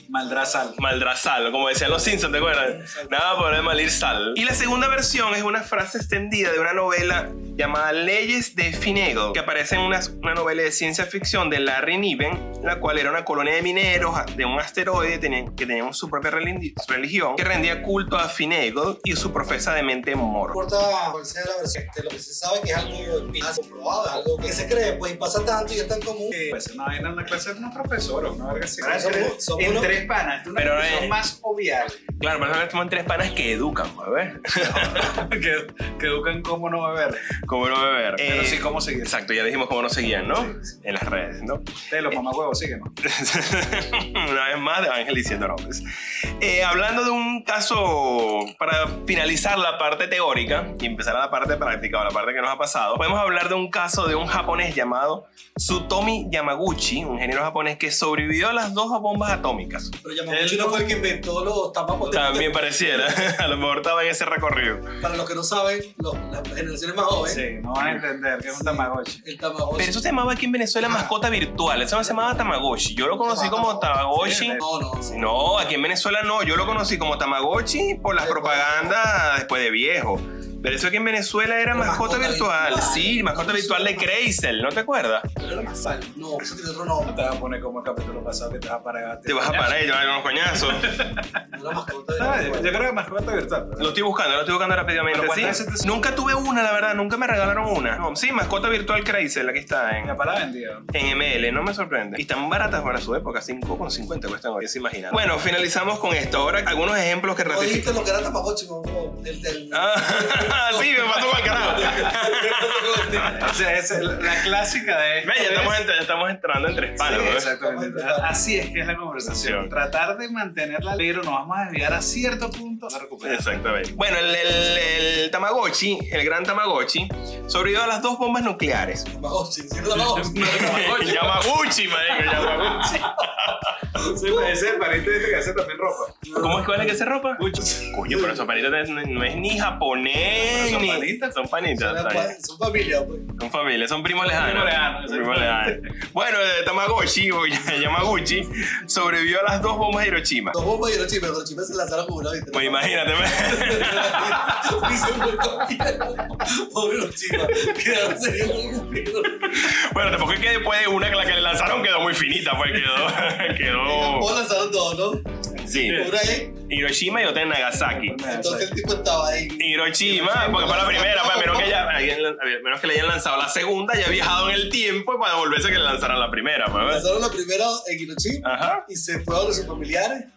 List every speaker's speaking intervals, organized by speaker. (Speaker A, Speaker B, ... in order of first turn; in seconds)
Speaker A: 0.1-0.8, 26.5-32.0, 34.5-37.3, 38.2-39.2, 40.3-40.6, 41.9-42.9, 60.3-61.0, 67.3-69.2, 74.1-74.6, 87.1-89.8, 90.5-91.5, 92.2-94.0, 95.1-96.0, 100.0-100.9, 113.2-115.8, 117.0-123.5, 129.9-131.4, 132.1-133.1, 133.9-136.3, 137.4-138.2, 140.2-141.4, 144.2-145.8, 165.7-166.2, 167.8-168.7
Speaker B: 0.2-0.7, 2.2-3.5, 20.5-26.6, 28.8-29.9, 60.0-62.5, 65.0-67.4, 68.5-70.0, 70.8-71.1, 72.1-72.4, 73.2-74.0, 74.6-75.4, 78.2-79.0, 81.7-84.1, 85.4-87.3, 91.5-92.8, 107.5-113.5, 117.6-118.4, 129.1-131.1, 134.1-134.5, 136.2-136.8, 141.7-143.3, 150.5-159.8, 163.6-165.2, 165.8-166.6, 168.2-171.8, 176.8-180.3
Speaker C: 0.8-20.6, 30.6-31.1, 32.2-35.1, 37.4-41.7, 43.0-45.9, 46.4-60.0, 62.1-64.8, 69.8-74.6, 75.1-85.3, 89.3-91.0, 93.8-100.2, 100.9-108.0, 109.7-113.6, 115.2-117.5, 119.2-119.7, 123.2-129.1, 130.5-133.8, 136.3-142.3, 143.4-150.6, 152.5-154.8, 159.4-164.3, 165.6-166.1, 166.7-168.2, 169.6-177.1, 178.4-178.9